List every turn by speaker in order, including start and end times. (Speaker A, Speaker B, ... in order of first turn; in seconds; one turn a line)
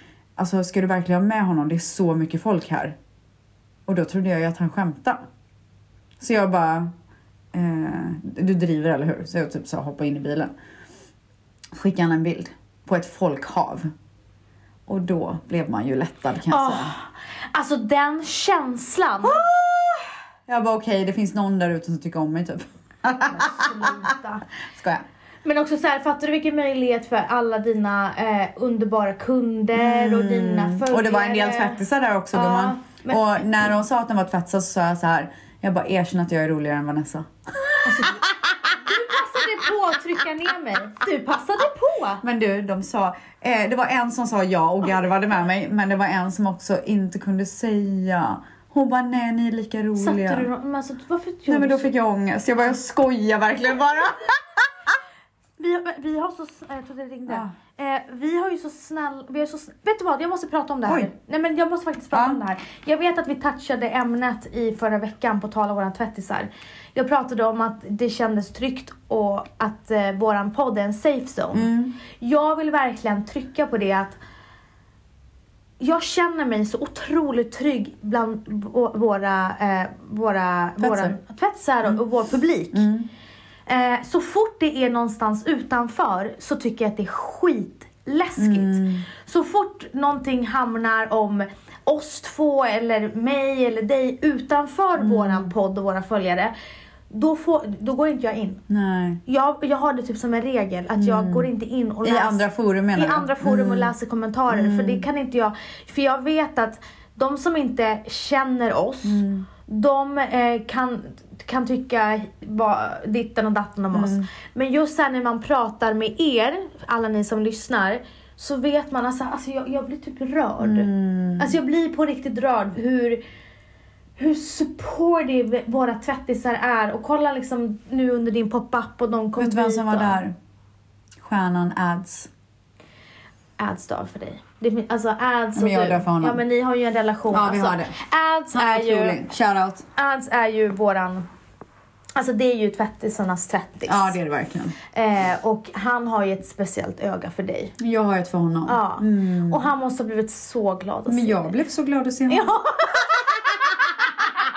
Speaker A: 0.4-3.0
Speaker A: 3.9-5.2
Speaker A: 6.2-6.9
Speaker A: 7.5-10.5
Speaker A: 11.7-13.9
Speaker A: 14.9-16.9
Speaker B: 16.5-19.4
Speaker A: 19.2-24.0
Speaker B: 23.2-24.4
Speaker A: 24.7-25.1
Speaker B: 25.4-31.8
Speaker A: 29.8-37.3
Speaker B: 32.3-33.5
Speaker B: 37.8-42.2
Speaker A: 38.0-38.3
Speaker A: 42.2-50.5
Speaker B: 50.0-51.9
Speaker A: 51.5-54.6
Speaker B: 55.6-74.2
Speaker A: 57.3-57.5
Speaker A: 62.1-62.4
Speaker A: 71.5-72.0
Speaker B: 75.8-82.9
Speaker A: 80.8-81.1
Speaker A: 82.7-83.1
Speaker B: 83.7-96.5
Speaker A: 88.4-89.1
Speaker A: 95.0-95.5
Speaker B: 97.1-98.6
Speaker A: 98.7-99.2
Speaker B: 99.3-123.2
Speaker A: 101.0-101.5
Speaker A: 102.0-103.9
Speaker A: 104.5-105.0
Speaker A: 109.0-109.5
Speaker A: 113.9-114.3
Speaker A: 120.6-121.5
Speaker B: 124.2-130.2
Speaker A: 129.4-130.3
Speaker A: 131.2-132.3
Speaker B: 133.6-139.2
Speaker A: 135.6-136.4
Speaker A: 137.3-137.9
Speaker A: 138.5-139.8
Speaker B: 140.0-141.3
Speaker B: 142.2-144.2
Speaker A: 143.9-144.8
Speaker B: 144.9-147.8
Speaker A: 147.8-149.7
Speaker B: 148.7-151.6
Speaker A: 151.1-152.5
Speaker B: 152.3-153.4